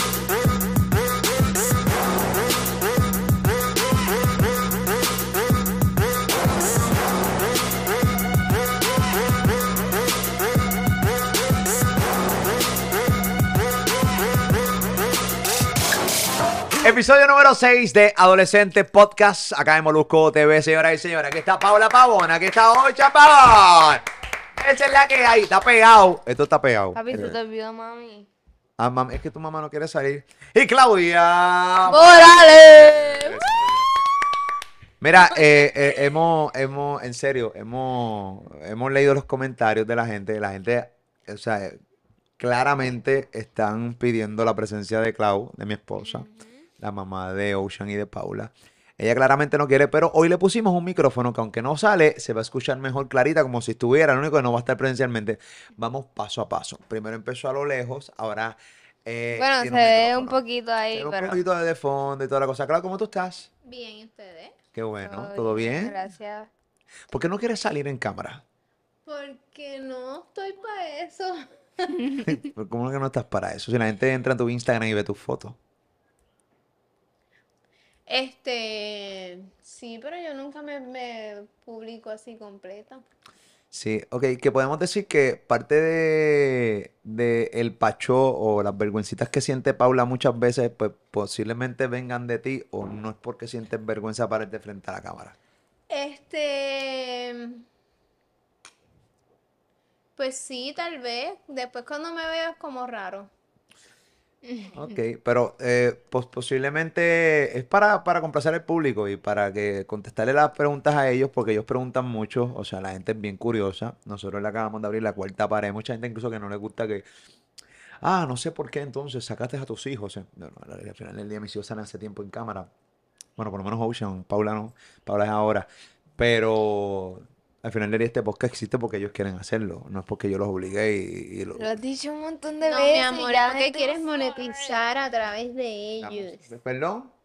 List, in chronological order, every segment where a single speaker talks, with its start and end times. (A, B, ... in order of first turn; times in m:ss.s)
0:16.8-0:24.0 A
0:24.6-0:27.4 A
0:26.9-0:28.3 B
0:28.8-0:33.6 A
0:31.8-0:33.4 B
0:35.0-0:41.8 A
0:42.4-0:46.3 A
0:46.0-0:46.5 B
0:46.8-1:00.4 A
0:59.4-1:01.4 B
1:00.9-1:03.5 A
1:03.6-1:04.6 C
1:04.7-1:06.0 A
1:05.0-1:06.5 B
1:07.1-1:08.4 A
1:09.0-1:12.4 C
1:12.2-1:15.6 A
1:18.1-1:23.0 C
1:23.7-1:35.4 A
1:35.9-1:37.6 C
1:40.2-1:43.3 C
1:44.4-1:44.8 C
1:44.7-1:57.0 A
1:58.0-2:02.7 A
2:03.4-2:11.7 A
2:11.6-2:14.8 B
2:12.6-2:16.5 C
2:16.0-2:17.1 A